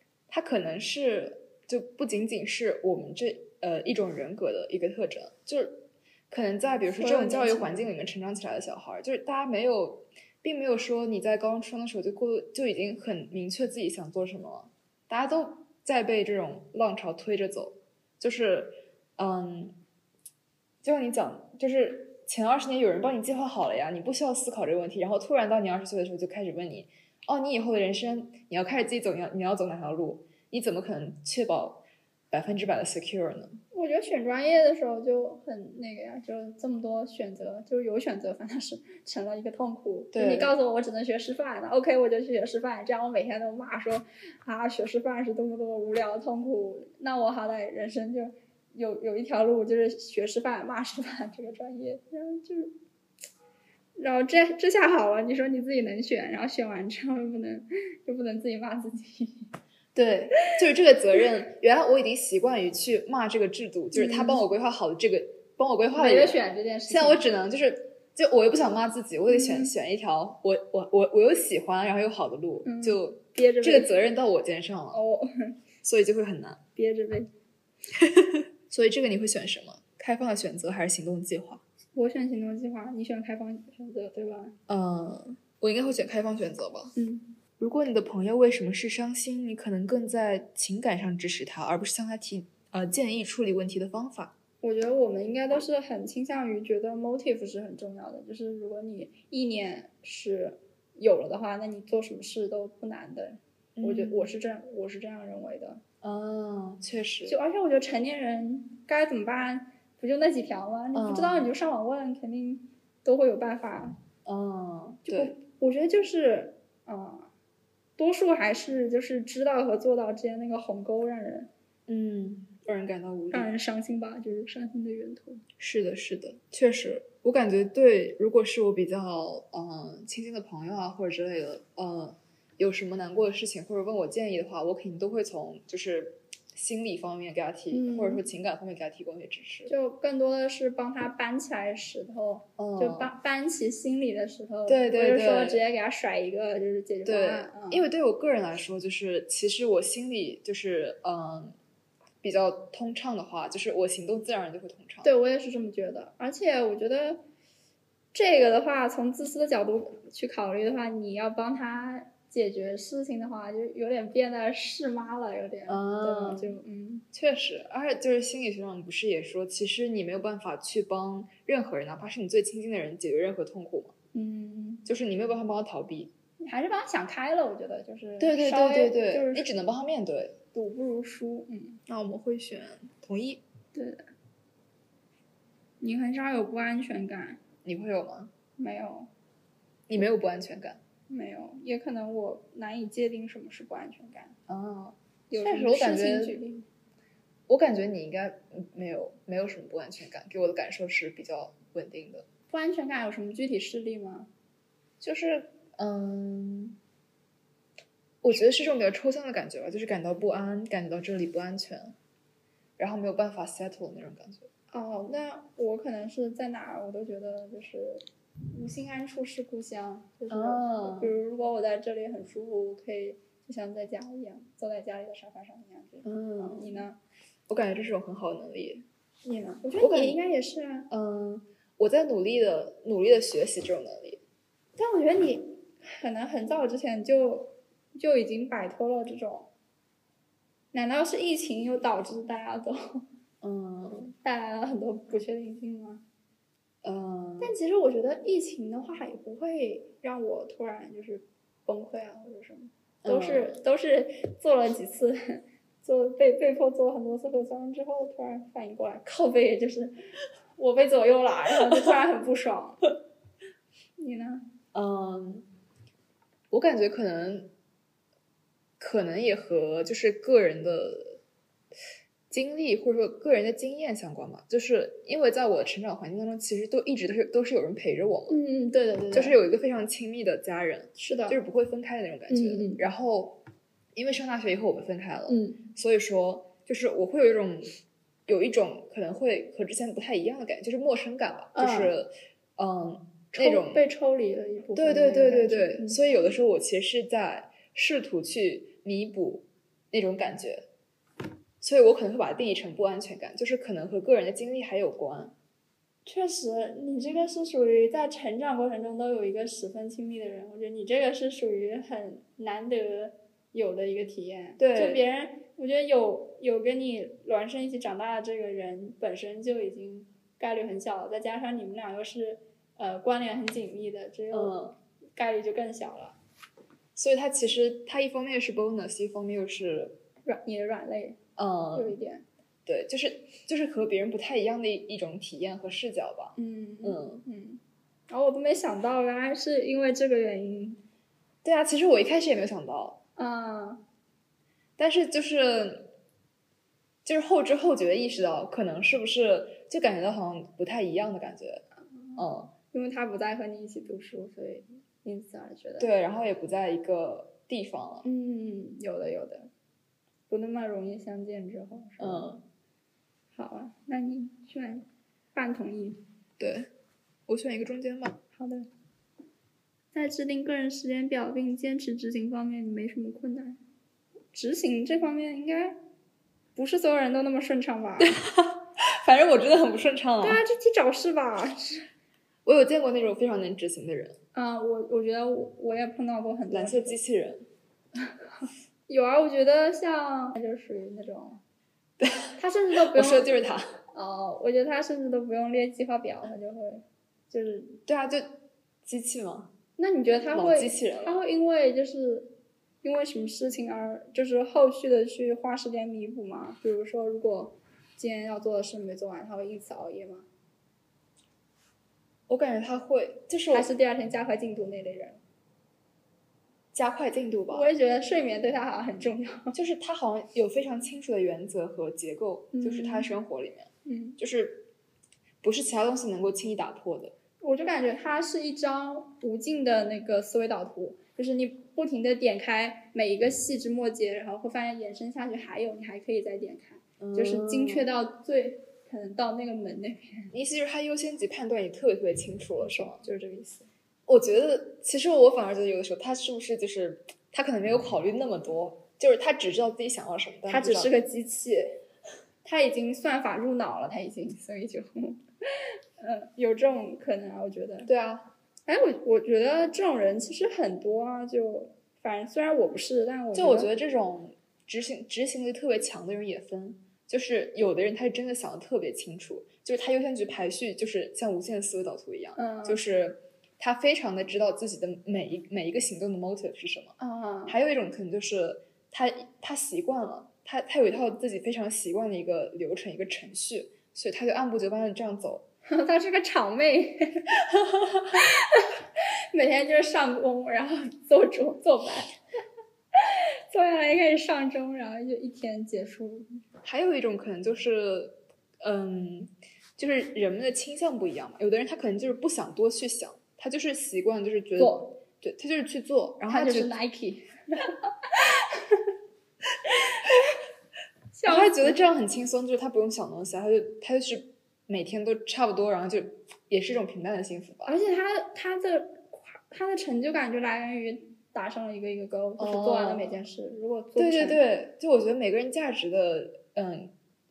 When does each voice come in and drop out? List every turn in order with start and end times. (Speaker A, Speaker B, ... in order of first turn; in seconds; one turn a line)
Speaker A: 0.3-19.8
Speaker B: 7.0-7.9
Speaker A: 20.8-33.6
Speaker B: 33.7-52.7
Speaker A: 40.1-40.5
Speaker B: 54.0-59.5
Speaker A: 60.0-75.0
Speaker B: 63.9-64.5
Speaker B: 66.0-67.2
Speaker B: 69.3-69.7
Speaker B: 72.7-73.9
Speaker B: 74.9-75.5
Speaker A: 75.8-76.6
Speaker B: 76.8-77.3
Speaker A: 77.9-81.6
Speaker B: 82.0-84.6
Speaker A: 84.7-86.9
Speaker B: 87.0-87.3
Speaker A: 87.6-94.4
Speaker B: 94.6-105.8
Speaker A: 103.8-104.3
Speaker A: 106.0-107.4
Speaker B: 107.3-114.0
Speaker A: 110.9-111.5
Speaker A: 114.2-115.3
Speaker B: 115.1-117.3
Speaker B: 118.0-121.5
Speaker A: 121.9-123.5
Speaker B: 123.3-125.4
Speaker A: 125.6-139.7
Speaker B: 137.7-138.2
Speaker B: 139.7-147.9
Speaker A: 142.6-143.1
Speaker A: 144.7-145.6
Speaker A: 147.1-151.6
Speaker A: 152.2-155.1
Speaker B: 155.0-157.2
Speaker B: 158.1-167.1
Speaker A: 165.7-166.6
Speaker A: 167.1-173.9
Speaker B: 174.1-174.9
Speaker A: 174.9-176.1
Speaker B: 176.4-179.5
Speaker A: 178.2-180.4
Speaker B: 180.5-181.8
Speaker A: 181.9-183.4
Speaker B: 183.7-184.0
Speaker B: 185.8-187.4
Speaker A: 187.6-188.3
Speaker B: 188.6-189.1
Speaker A: 189.9-190.8
Speaker B: 191.1-194.4
Speaker A: 194.5-196.4
Speaker B: 195.3-196.7
Speaker A: 197.5-202.3
Speaker B: 202.5-204.3
Speaker A: 205.0-206.8
Speaker A: 208.2-212.0
Speaker A: 212.8-214.5
Speaker B: 214.7-227.0
Speaker A: 220.3-221.2
Speaker A: 226.0-226.9
Speaker A: 227.5-228.9
Speaker B: 229.2-230.9
Speaker A: 229.8-230.2
Speaker A: 230.9-234.2
Speaker B: 234.8-239.5
Speaker B: 240.7-243.1
Speaker A: 243.4-244.1
Speaker B: 244.2-246.0
Speaker A: 246.8-247.6
Speaker B: 247.4-260.0
Speaker A: 253.0-253.6
Speaker B: 260.6-262.9
Speaker B: 264.0-264.4
Speaker A: 264.7-265.5
Speaker A: 266.5-267.5
Speaker A: 268.8-271.2
Speaker A: 272.3-278.4
Speaker B: 278.3-279.4
Speaker A: 279.1-283.4
Speaker B: 281.0-281.4
Speaker B: 282.3-282.9
Speaker A: 283.9-287.7
Speaker B: 285.3-285.6
Speaker A: 288.3-293.9
Speaker B: 291.5-292.0
Speaker B: 293.4-296.0
Speaker A: 294.8-300.7
Speaker A: 301.6-305.4
Speaker B: 306.1-324.6
Speaker A: 314.6-315.0
Speaker A: 324.3-324.8
Speaker B: 325.2-326.2
Speaker A: 326.9-330.0
Speaker B: 330.3-331.2
Speaker A: 331.4-332.0
Speaker B: 331.7-332.3
Speaker A: 332.7-337.2
Speaker B: 336.4-340.8
Speaker A: 341.4-343.0
Speaker B: 343.2-343.8
Speaker A: 344.8-345.9
Speaker A: 347.1-351.6
Speaker B: 351.9-355.9
Speaker A: 352.2-352.5
Speaker A: 355.8-358.1
Speaker B: 358.0-359.5
Speaker B: 360.3-362.3
Speaker A: 362.0-362.4
Speaker B: 363.4-366.0
Speaker A: 366.4-366.7
Speaker A: 367.3-368.2
Speaker B: 368.4-368.7
Speaker B: 369.9-373.6
Speaker B: 374.3-375.8
Speaker B: 376.6-378.2
Speaker A: 378.0-380.4
Speaker B: 380.2-381.9
Speaker A: 382.4-384.2
Speaker B: 384.3-387.0
Speaker A: 386.5-387.5
Speaker B: 388.9-391.4
Speaker A: 392.0-393.8
Speaker B: 392.4-393.3
Speaker B: 393.9-397.8
Speaker A: 397.9-399.5
Speaker B: 399.8-402.3
Speaker A: 400.3-401.2
Speaker B: 402.8-410.3
Speaker A: 412.3-413.7
Speaker B: 413.5-415.2
Speaker A: 416.7-417.7
Speaker B: 417.5-419.6
Speaker A: 419.5-424.7
Speaker B: 422.5-423.2
Speaker B: 423.9-424.2
Speaker A: 425.4-427.1
Speaker B: 427.4-440.3
Speaker A: 437.0-437.9
Speaker A: 440.3-443.0
Speaker B: 442.6-443.7
Speaker A: 444.1-450.9
Speaker B: 450.5-451.8
Speaker B: 452.4-457.9
Speaker A: 457.9-458.3
Speaker B: 458.7-463.7
Speaker A: 463.3-476.9
Speaker B: 472.4-472.8
Speaker B: 477.0-477.6
Speaker A: 477.5-485.4
Speaker B: 485.7-487.3
Speaker B: 488.1-488.8
Speaker B: 489.3-492.1
Speaker B: 492.9-496.3
Speaker A: 496.6-506.8
Speaker B: 504.6-505.0
Speaker B: 506.3-508.8
Speaker B: 511.1-511.8
Speaker A: 511.3-517.7
Speaker B: 517.6-524.4
Speaker A: 522.4-523.2
Speaker A: 524.0-526.9